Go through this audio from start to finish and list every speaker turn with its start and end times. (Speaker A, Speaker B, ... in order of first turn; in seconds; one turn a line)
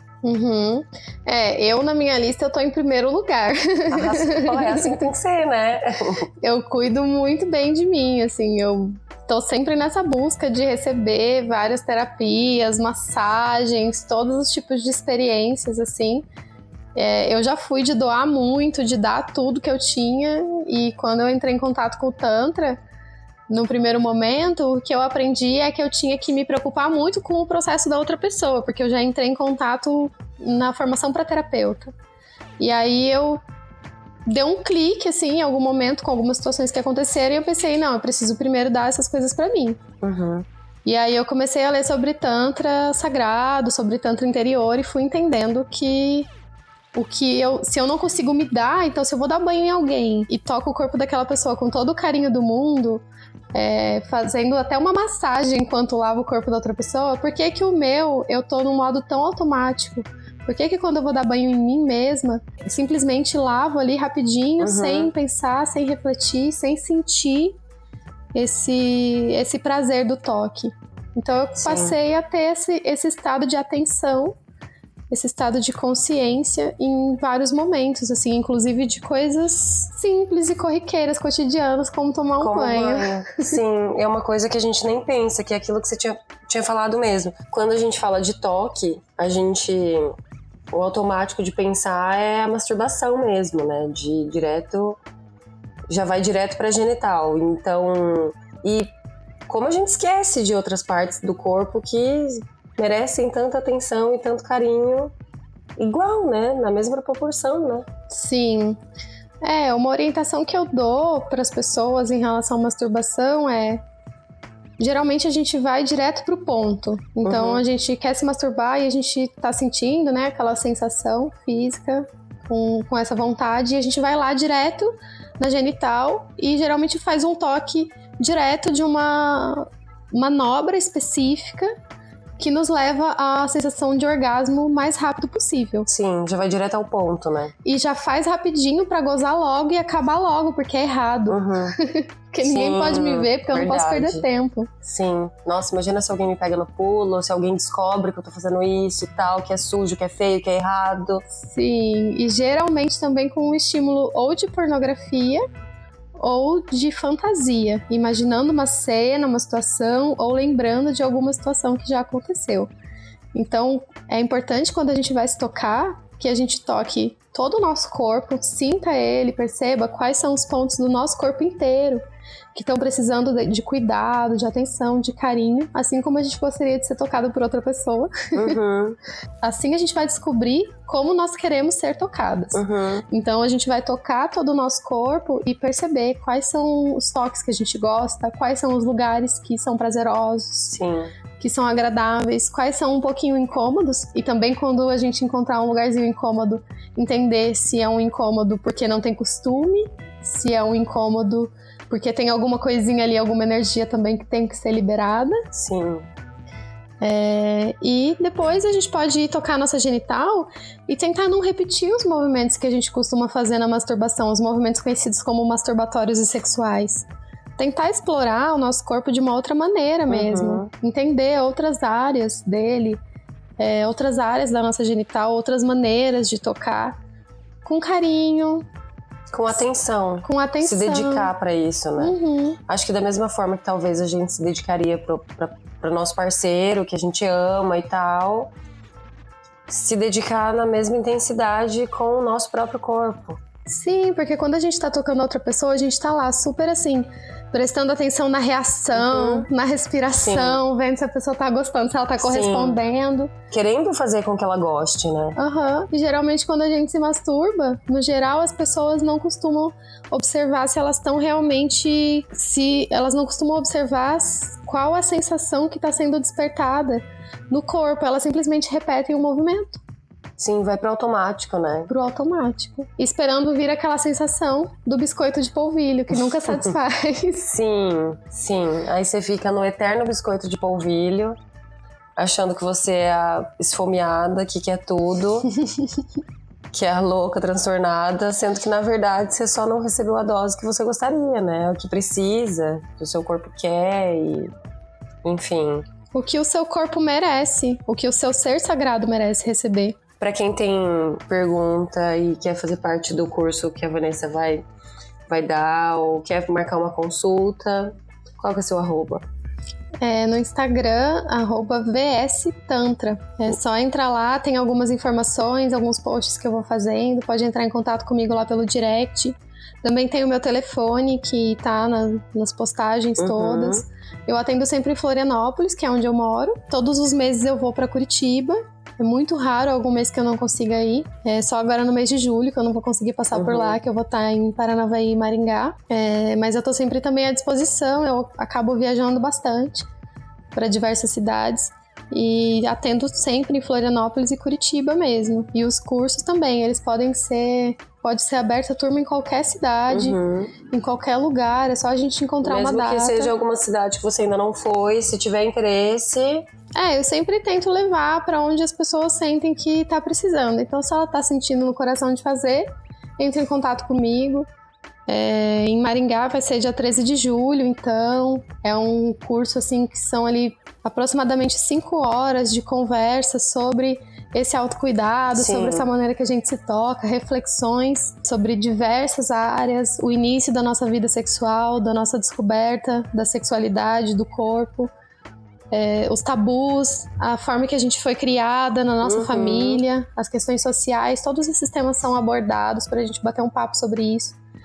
Speaker A: 0.2-5.0
Speaker B: 3.9-6.3
Speaker A: 6.4-16.2
Speaker A: 16.9-22.8
Speaker A: 23.5-31.9
Speaker A: 32.6-33.4
Speaker A: 34.2-39.8
Speaker B: 40.0-40.5
Speaker A: 40.8-46.3
Speaker A: 46.9-67.6
Speaker B: 64.6-65.1
Speaker A: 68.3-74.4
Speaker B: 71.6-71.9
Speaker A: 75.1-83.6
Speaker B: 82.4-90.2
Speaker B: 90.7-95.0
Speaker B: 95.9-98.9
Speaker B: 99.5-105.1
Speaker B: 105.8-107.9
Speaker A: 108.1-108.8
Speaker A: 109.4-113.8
Speaker A: 114.8-131.7
Speaker B: 117.2-117.6
Speaker A: 132.4-135.9
Speaker B: 135.9-137.5
Speaker A: 137.6-144.7
Speaker B: 141.3-141.8
Speaker B: 142.4-144.2
Speaker B: 144.8-151.2
Speaker A: 151.3-155.4
Speaker A: 156.2-162.7
Speaker A: 163.3-172.0
Speaker A: 172.5-178.6
Speaker B: 178.3-179.0
Speaker A: 179.4-190.8
Speaker B: 182.5-183.0
Speaker B: 190.7-191.1
Speaker A: 191.4-205.4
Speaker B: 205.5-206.1
Speaker A: 207.0-217.1
Speaker A: 217.6-223.0
Speaker B: 220.1-220.7
Speaker A: 223.6-226.9
Speaker A: 227.6-228.6
Speaker B: 229.3-232.2
Speaker A: 230.2-231.3
Speaker A: 232.0-232.6
Speaker B: 232.7-238.5
Speaker B: 239.7-243.4
Speaker A: 243.7-253.3
Speaker B: 248.9-249.5
Speaker B: 250.2-250.6
Speaker B: 252.2-252.8
Speaker B: 253.5-255.4
Speaker A: 255.4-269.8
Speaker B: 270.4-271.9
Speaker A: 271.9-277.5
Speaker B: 276.2-276.7
Speaker B: 277.4-281.4
Speaker B: 282.2-285.5
Speaker B: 286.7-294.5
Speaker B: 295.2-295.9
Speaker A: 296.1-300.0
Speaker B: 300.2-304.6
Speaker B: 305.3-309.2
Speaker A: 310.0-339.9
Speaker B: 323.2-323.8
Speaker B: 333.3-333.8
Speaker A: 340.5-350.2
Speaker B: 349.9-350.5
Speaker A: 350.7-353.3
Speaker B: 352.4-356.4
Speaker A: 356.7-364.5
Speaker A: 365.1-384.9
Speaker B: 375.3-375.9
Speaker A: 385.7-394.4
Speaker B: 389.0-389.8